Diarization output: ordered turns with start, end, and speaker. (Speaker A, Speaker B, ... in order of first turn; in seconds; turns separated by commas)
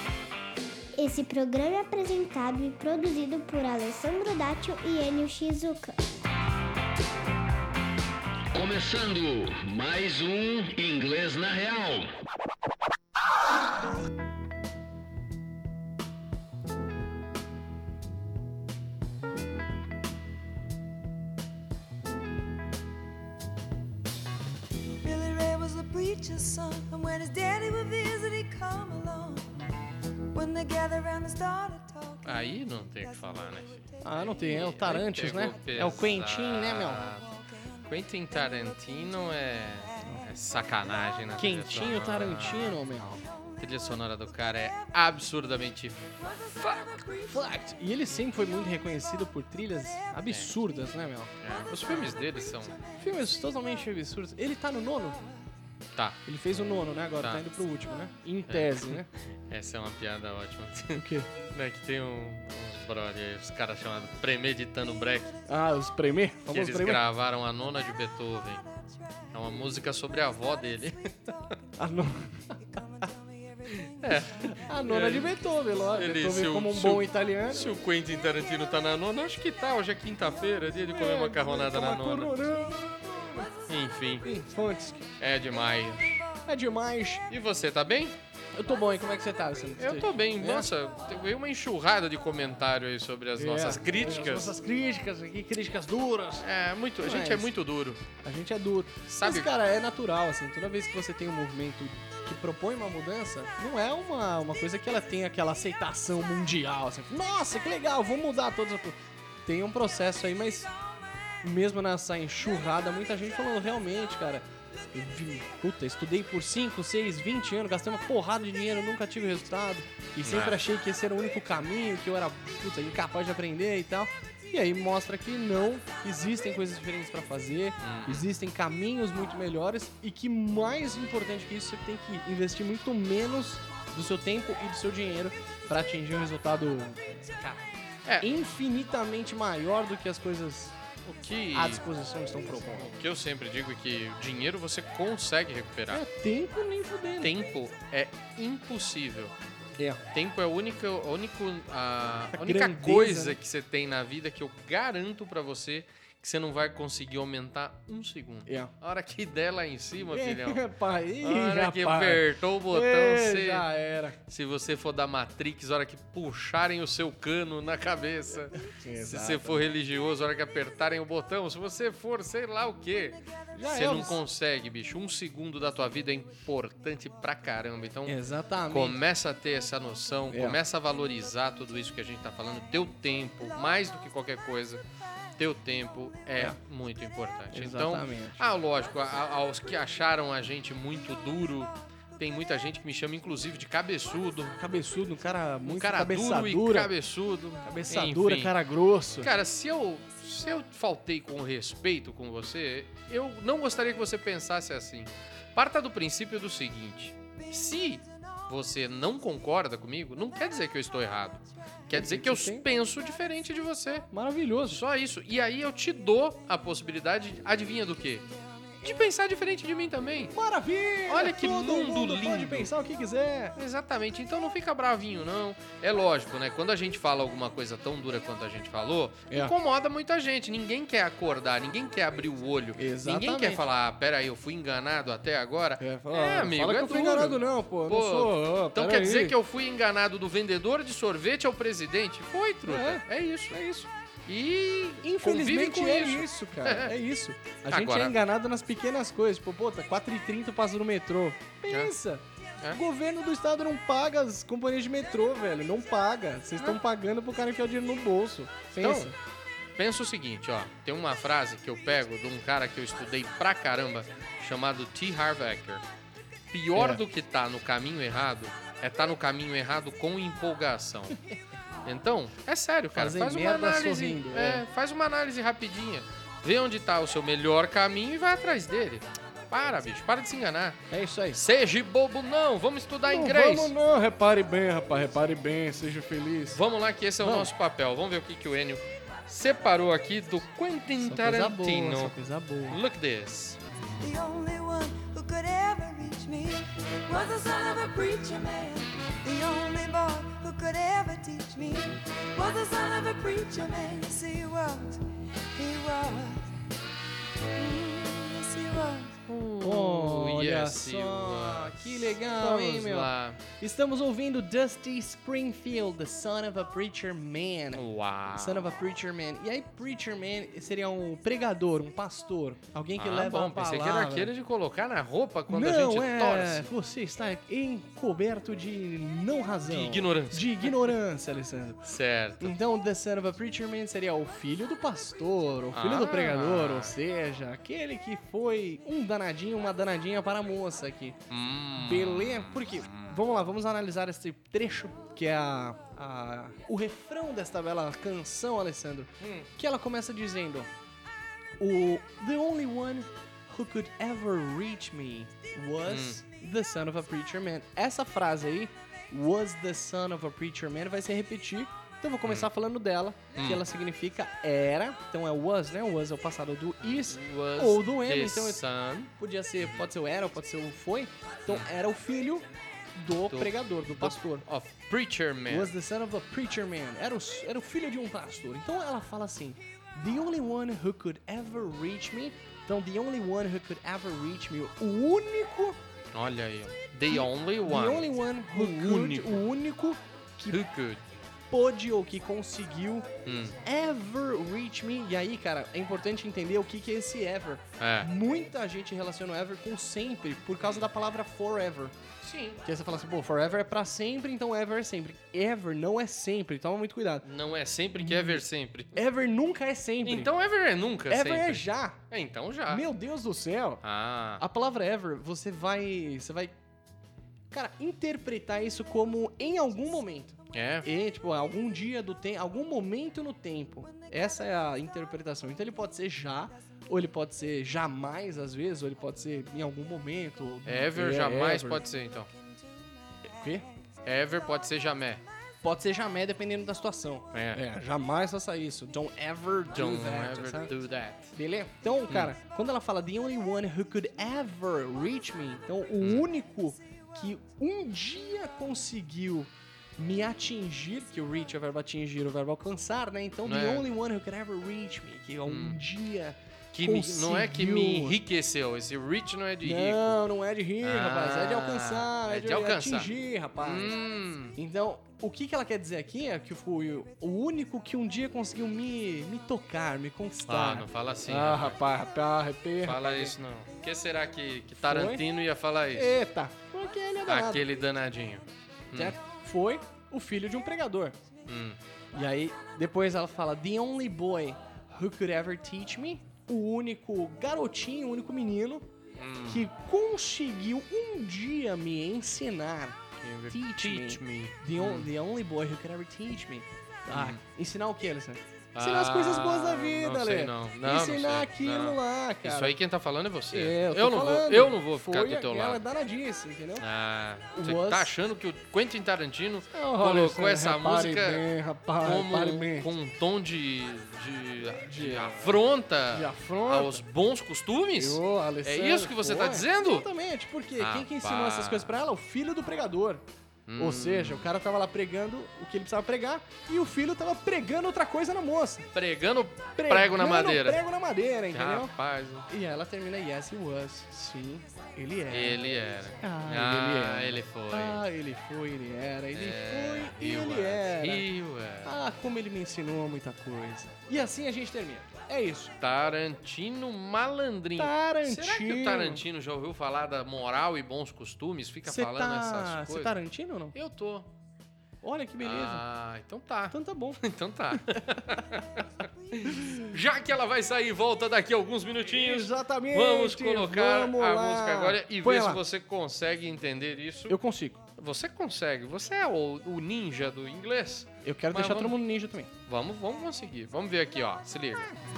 Speaker A: 1.0-6.0, Speaker B: 8.5-12.1, Speaker C: 25.0-29.5, Speaker C: 30.3-32.2, Speaker D: 32.2-37.3, Speaker E: 34.0-37.0, Speaker D: 37.8-42.8, Speaker E: 41.4-43.2, Speaker D: 43.6-46.9, Speaker C: 46.6-47.2, Speaker E: 47.2-52.1, Speaker D: 50.3-50.5, Speaker D: 51.4-52.8, Speaker E: 53.0-55.2, Speaker E: 56.3-59.1, Speaker D: 58.5-65.4, Speaker E: 61.0-61.3, Speaker E: 65.5-67.0, Speaker D: 66.5-68.6, Speaker D: 69.3-71.5, Speaker E: 71.8-72.6, Speaker D: 73.7-75.4, Speaker E: 74.1-77.7, Speaker D: 75.9-82.4, Speaker E: 80.9-83.5, Speaker D: 83.7-84.3, Speaker E: 84.2-85.1, Speaker D: 85.2-86.2, Speaker E: 86.5-87.2, Speaker D: 87.3-88.2, Speaker E: 88.5-90.7, Speaker D: 89.8-94.5, Speaker E: 93.4-96.5, Speaker D: 96.4-98.0, Speaker E: 97.0-97.5, Speaker E: 98.2-110.7, Speaker D: 99.1-99.5, Speaker E: 111.4-137.7, Speaker D: 120.2-120.6, Speaker D: 127.8-128.3, Speaker E: 138.2-140.8, Speaker D: 141.1-141.8, Speaker E: 141.5-142.9, Speaker D: 142.8-146.0, Speaker E: 145.9-147.3, Speaker D: 147.2-149.3, Speaker D: 150.1-160.6, Speaker E: 152.3-153.4, Speaker E: 158.5-158.7, Speaker E: 160.1-164.2, Speaker D: 161.2-163.7, Speaker D: 164.3-178.2, Speaker E: 168.6-169.6, Speaker E: 173.5-174.2, Speaker E: 178.1-179.0, Speaker D: 178.7-184.8, Speaker E: 180.3-180.6, Speaker D: 185.4-194.6, Speaker E: 187.5-188.4, Speaker E: 194.6-196.9, Speaker D: 195.7-198.6, Speaker E: 197.6-199.3, Speaker D: 199.2-214.1, Speaker E: 211.9-212.7, Speaker E: 214.1-214.8, Speaker D: 214.7-220.3, Speaker E: 220.3-223.6, Speaker D: 221.1-222.7, Speaker D: 223.6-243.6, Speaker E: 232.8-233.7, Speaker E: 235.8-239.4, Speaker E: 242.7-243.9, Speaker D: 244.3-246.9, Speaker E: 245.0-259.2, Speaker D: 247.7-248.2, Speaker D: 258.8-259.1, Speaker D: 259.8-265.8, Speaker D: 266.5-271.2, Speaker E: 266.8-267.0, Speaker D: 271.9-283.8, Speaker E: 272.9-274.6, Speaker E: 280.9-281.4, Speaker E: 283.1-286.6, Speaker D: 286.5-292.1, Speaker E: 287.2-287.5, Speaker E: 291.0-292.8, Speaker D: 292.7-293.6, Speaker C: 294.0-306.5, Speaker C: 307.6-309.2, Speaker D: 309.3-313.4, Speaker E: 309.6-317.8, Speaker D: 317.8-318.7, Speaker E: 318.3-324.3, Speaker D: 323.0-326.7, Speaker E: 325.5-341.2, Speaker D: 329.7-330.9, Speaker D: 331.9-332.6, Speaker D: 335.7-336.9, Speaker D: 341.3-343.2, Speaker E: 341.7-350.7, Speaker D: 349.2-349.5, Speaker E: 351.6-368.6, Speaker D: 355.9-356.2, Speaker D: 363.4-363.6, Speaker D: 366.8-369.1, Speaker E: 369.2-374.4, Speaker D: 373.3-375.8, Speaker E: 375.5-385.8, Speaker D: 386.1-389.4, Speaker E: 387.1-390.6, Speaker D: 390.5-391.0, Speaker E: 391.5-393.1, Speaker D: 393.2-393.6, Speaker E: 393.6-401.9, Speaker D: 397.8-398.1, Speaker D: 402.2-402.6, Speaker E: 402.6-407.3, Speaker D: 407.2-409.0, Speaker E: 408.0-410.3, Speaker D: 410.0-412.9, Speaker E: 411.1-412.0, Speaker E: 412.7-413.8, Speaker D: 413.8-414.4, Speaker E: 414.4-416.6, Speaker E: 417.5-431.8, Speaker D: 420.5-420.9, Speaker D: 430.7-432.3, Speaker E: 433.2-433.7, Speaker D: 434.1-435.2, Speaker E: 435.6-440.7, Speaker D: 437.3-437.6, Speaker D: 439.7-441.4, Speaker E: 441.3-458.2, Speaker D: 453.4-453.9, Speaker D: 455.5-455.8, Speaker D: 456.7-460.2, Speaker E: 459.6-464.0, Speaker D: 460.8-464.6, Speaker E: 464.6-473.4, Speaker D: 470.4-471.8, Speaker D: 472.8-476.1, Speaker E: 474.8-475.2, Speaker E: 475.9-477.7, Speaker D: 477.3-479.2, Speaker E: 478.9-481.2, Speaker D: 481.5-481.8, Speaker E: 482.1-488.9, Speaker D: 489.2-489.7, Speaker E: 489.5-493.0, Speaker D: 493.2-495.1, Speaker E: 493.5-502.8, Speaker D: 497.1-497.4, Speaker D: 498.7-505.8, Speaker E: 503.5-506.9, Speaker D: 506.8-511.5, Speaker E: 507.5-508.1, Speaker E: 509.7-512.9, Speaker D: 512.0-520.1, Speaker E: 514.8-515.5, Speaker E: 516.1-517.0, Speaker E: 518.0-523.2, Speaker D: 520.8-521.9, Speaker D: 523.7-524.5, Speaker E: 523.8-528.9, Speaker D: 528.9-530.8, Speaker E: 529.8-531.9, Speaker D: 531.5-532.5, Speaker E: 532.5-535.6, Speaker D: 535.3-538.0, Speaker E: 536.2-541.3, Speaker D: 539.3-541.9, Speaker E: 541.8-545.7, Speaker D: 545.8-553.1, Speaker E: 547.8-549.2, Speaker E: 551.8-553.7, Speaker D: 553.7-554.3, Speaker E: 555.0-555.9, Speaker D: 555.4-567.4, Speaker E: 556.7-557.2, Speaker E: 557.7-558.4, Speaker E: 559.5-559.8, Speaker E: 562.0-565.6, Speaker E: 567.3-567.8, Speaker D: 568.0-572.0, Speaker E: 571.2-572.5, Speaker D: 572.7-574.9